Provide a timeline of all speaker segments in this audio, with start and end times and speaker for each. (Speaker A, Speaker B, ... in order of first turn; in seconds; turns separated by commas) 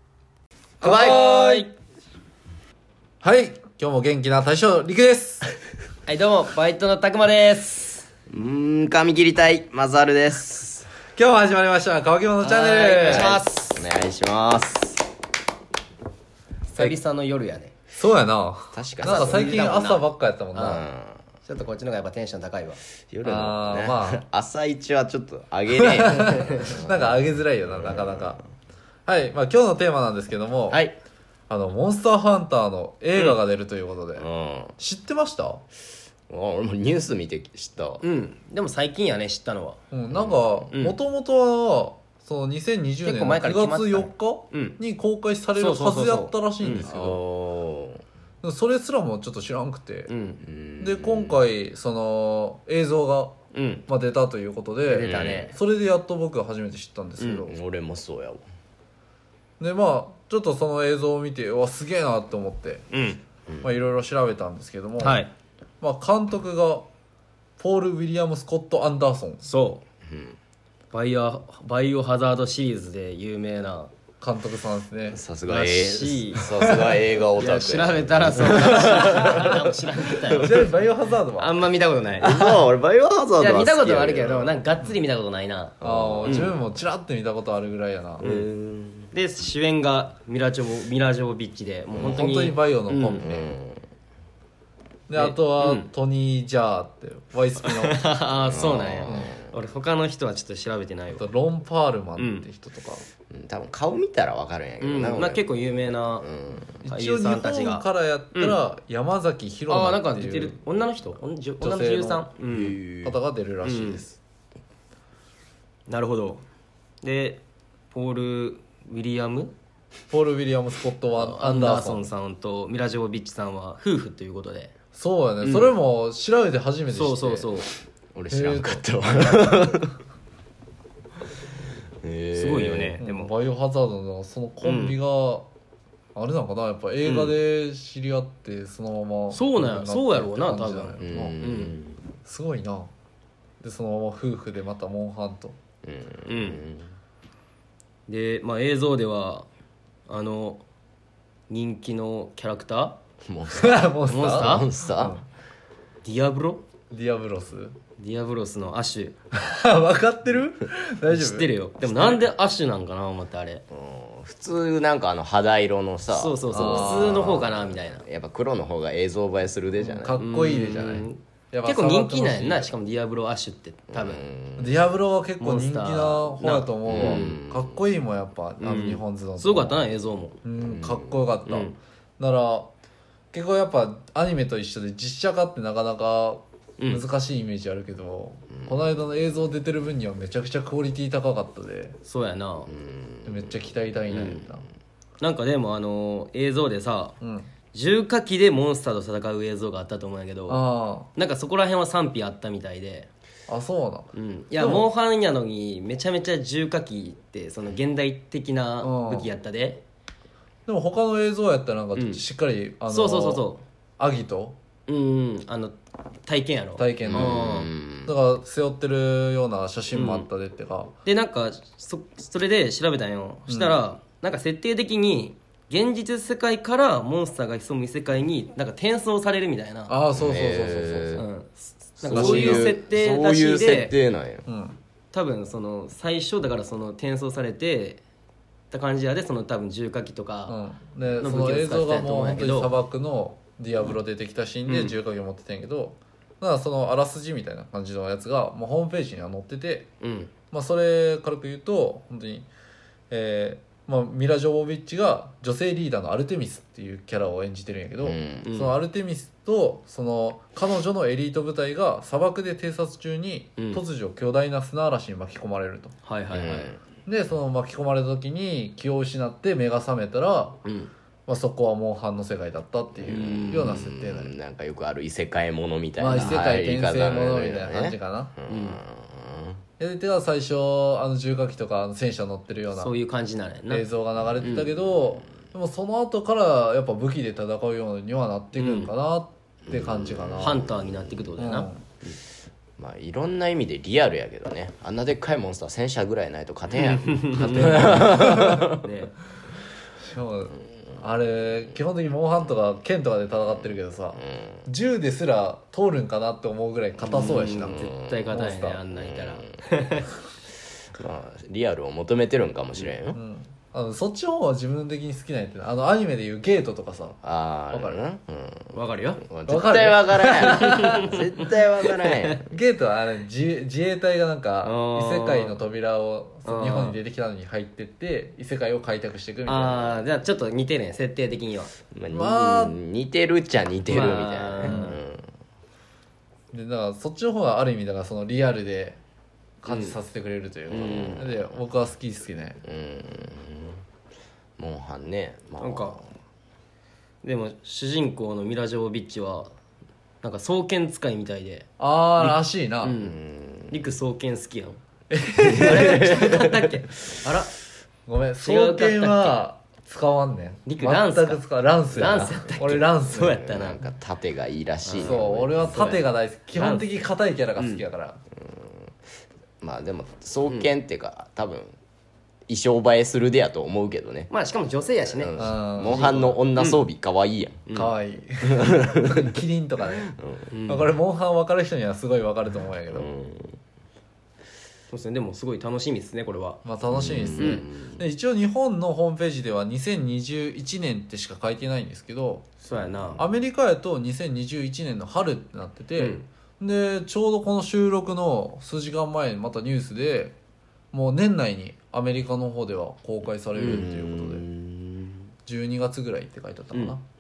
Speaker A: 0.8-1.7, Speaker B: 0.8-1.3, Speaker C: 1.0-1.6, Speaker C: 3.2-5.5, Speaker A: 6.1-8.1, Speaker B: 8.3-10.9, Speaker C: 11.1-13.3, Speaker A: 12.4-13.9, Speaker B: 13.0-15.1, Speaker A: 16.7-17.7, Speaker C: 17.9-20.9, Speaker B: 18.7-19.5, Speaker A: 19.0-20.8, Speaker B: 20.7-21.2, Speaker A: 21.4-22.8, Speaker B: 23.1-28.4, Speaker C: 23.2-24.2, Speaker C: 25.8-28.4, Speaker C: 29.1-30.8, Speaker B: 30.7-31.0, Speaker C: 31.5-34.3, Speaker B: 34.2-34.8, Speaker C: 34.8-35.6, Speaker B: 36.3-38.0, Speaker A: 38.0-39.8, Speaker C: 39.9-47.2, Speaker B: 40.1-40.7, Speaker A: 40.7-41.0, Speaker A: 43.0-44.8, Speaker A: 45.6-46.9, Speaker B: 46.9-48.0, Speaker C: 48.4-50.1, Speaker A: 50.1-50.4, Speaker B: 50.4-51.4, Speaker C: 50.8-53.4, Speaker A: 53.5-53.9, Speaker C: 53.9-57.6, Speaker A: 54.9-55.5, Speaker B: 55.0-55.5, Speaker A: 57.2-57.5, Speaker B: 57.5-58.4, Speaker C: 59.6-62.9, Speaker A: 62.9-63.2, Speaker C: 63.6-65.2, Speaker A: 65.0-65.3, Speaker C: 65.8-66.9, Speaker C: 67.6-69.4, Speaker A: 69.4-69.8, Speaker B: 70.1-70.4, Speaker A: 70.9-73.9, Speaker C: 74.2-75.2, Speaker B: 75.1-79.6, Speaker A: 75.5-76.5, Speaker C: 76.4-76.7, Speaker A: 77.4-80.7, Speaker C: 80.4-81.6, Speaker A: 81.4-82.4, Speaker B: 82.2-84.5, Speaker A: 83.4-86.5, Speaker B: 85.8-86.6, Speaker C: 85.8-88.2, Speaker B: 88.2-89.1, Speaker A: 88.2-88.5, Speaker A: 89.1-93.2, Speaker C: 92.0-93.5, Speaker B: 93.2-93.8, Speaker C: 95.1-98.1, Speaker A: 95.2-95.9, Speaker A: 97.7-101.3, Speaker B: 98.5-99.5, Speaker C: 99.1-99.3, Speaker C: 101.1-103.1, Speaker A: 102.2-102.5, Speaker B: 103.3-105.5, Speaker A: 104.8-106.3, Speaker B: 106.2-106.8, Speaker C: 106.8-112.3, Speaker A: 106.9-108.6, Speaker A: 109.7-112.8, Speaker B: 112.5-113.2, Speaker C: 113.0-114.2, Speaker A: 113.6-114.0, Speaker A: 115.9-116.5, Speaker A: 117.0-119.5, Speaker C: 120.1-122.1, Speaker A: 121.2-124.7, Speaker C: 124.9-127.5, Speaker A: 125.4-125.7, Speaker A: 126.9-127.7, Speaker B: 128.2-130.0, Speaker C: 128.3-129.8, Speaker B: 132.0-133.0, Speaker A: 132.3-133.3, Speaker C: 133.0-135.5, Speaker A: 134.6-135.0, Speaker C: 136.2-141.5, Speaker A: 137.0-137.4, Speaker A: 139.3-141.8, Speaker B: 141.0-142.0, Speaker C: 142.2-142.9, Speaker C: 143.6-145.6, Speaker B: 145.8-146.9, Speaker A: 146.3-146.6, Speaker A: 148.1-149.5, Speaker A: 150.1-150.6, Speaker A: 151.5-153.0, Speaker B: 153.2-155.2, Speaker C: 153.5-155.2, Speaker A: 154.1-154.7, Speaker A: 156.0-156.7, Speaker C: 156.9-157.8, Speaker A: 158.0-159.2, Speaker C: 159.3-162.2, Speaker A: 161.1-163.6, Speaker B: 163.7-170.2, Speaker A: 166.1-168.1, Speaker C: 166.5-167.3, Speaker C: 169.8-172.7, Speaker A: 170.2-174.2, Speaker B: 173.9-174.8, Speaker C: 174.6-179.8, Speaker A: 175.4-177.4, Speaker B: 176.9-177.8, Speaker A: 178.6-180.4, Speaker C: 180.4-182.7, Speaker B: 180.6-181.2, Speaker A: 181.5-181.8, Speaker C: 183.3-192.0, Speaker A: 186.8-187.0, Speaker A: 192.1-192.7, Speaker B: 192.7-194.5, Speaker C: 193.2-194.7, Speaker A: 195.2-197.2, Speaker C: 197.2-197.5, Speaker A: 197.7-203.1, Speaker C: 200.5-201.1, Speaker C: 203.5-204.9, Speaker A: 204.1-209.8, Speaker C: 208.8-209.3, Speaker C: 210.7-213.4, Speaker A: 211.9-212.2, Speaker A: 212.9-213.6, Speaker C: 214.0-214.6, Speaker A: 214.9-217.7, Speaker C: 216.8-217.5, Speaker B: 217.1-218.1, Speaker C: 218.1-220.9, Speaker A: 219.9-220.3, Speaker A: 221.1-229.9, Speaker C: 223.5-223.8, Speaker C: 229.9-231.2, Speaker B: 230.2-231.2, Speaker A: 231.2-234.0, Speaker C: 232.0-232.8, Speaker B: 232.0-234.4, Speaker C: 234.4-234.8, Speaker A: 235.1-238.0, Speaker A: 238.7-240.6, Speaker C: 240.5-249.9, Speaker A: 241.1-242.7, Speaker A: 244.7-245.0, Speaker A: 250.0-250.3, Speaker C: 250.5-252.5, Speaker C: 253.1-266.0, Speaker B: 258.0-258.5, Speaker A: 258.4-258.8, Speaker A: 266.1-266.7, Speaker B: 266.3-266.8, Speaker C: 267.1-270.6, Speaker A: 270.6-270.9, Speaker C: 271.3-274.4, Speaker B: 273.1-279.6, Speaker A: 273.2-273.7, Speaker C: 276.0-278.4, Speaker A: 278.5-278.8, Speaker C: 279.8-282.9, Speaker A: 282.7-283.9, Speaker C: 283.7-290.6, Speaker B: 284.5-285.3, Speaker A: 288.6-288.9, Speaker B: 289.7-291.3, Speaker A: 290.4-291.7, Speaker C: 291.4-291.8, Speaker B: 292.8-298.9, Speaker A: 297.1-299.1, Speaker C: 297.3-298.8, Speaker C: 300.0-308.8, Speaker B: 303.4-304.6, Speaker A: 307.0-310.1, Speaker B: 307.6-308.3, Speaker B: 308.9-309.5, Speaker B: 310.9-313.2, Speaker C: 313.1-318.1, Speaker B: 317.2-322.4, Speaker A: 318.7-319.2, Speaker C: 319.5-321.1, Speaker A: 320.6-321.1, Speaker C: 322.3-330.0, Speaker A: 324.6-325.6, Speaker A: 326.4-327.0, Speaker A: 329.5-331.7, Speaker B: 331.9-335.3, Speaker C: 332.1-332.8, Speaker A: 333.9-335.0, Speaker C: 336.5-339.0, Speaker C: 339.6-342.6, Speaker A: 339.7-340.0, Speaker B: 340.7-341.4, Speaker B: 342.6-343.8, Speaker B: 344.6-346.1, Speaker A: 345.6-346.0, Speaker A: 347.2-349.5, Speaker A: 350.2-351.7, Speaker C: 351.8-353.0, Speaker A: 352.2-353.2, Speaker B: 353.0-353.8, Speaker A: 353.7-354.8, Speaker C: 355.1-356.5, Speaker B: 355.5-356.2, Speaker A: 355.5-357.6, Speaker C: 358.1-363.4, Speaker A: 358.4-359.4, Speaker A: 360.7-363.9, Speaker B: 363.1-365.8, Speaker A: 364.8-366.9, Speaker C: 365.0-368.2, Speaker B: 369.6-371.7, Speaker B: 372.5-374.3, Speaker A: 374.3-376.8, Speaker B: 375.0-377.7, Speaker C: 375.4-376.3, Speaker A: 377.7-377.9, Speaker C: 377.7-380.1, Speaker B: 378.6-379.2, Speaker B: 380.0-380.5, Speaker A: 380.5-380.9, Speaker C: 380.7-383.1, Speaker B: 382.9-383.6, Speaker A: 384.9-386.6, Speaker C: 386.6-392.5, Speaker B: 386.9-388.0, Speaker A: 387.3-387.6, Speaker A: 392.6-393.2, Speaker C: 393.2-400.4, Speaker A: 396.0-396.3, Speaker C: 400.9-404.5, Speaker B: 403.6-405.2, Speaker C: 405.5-407.0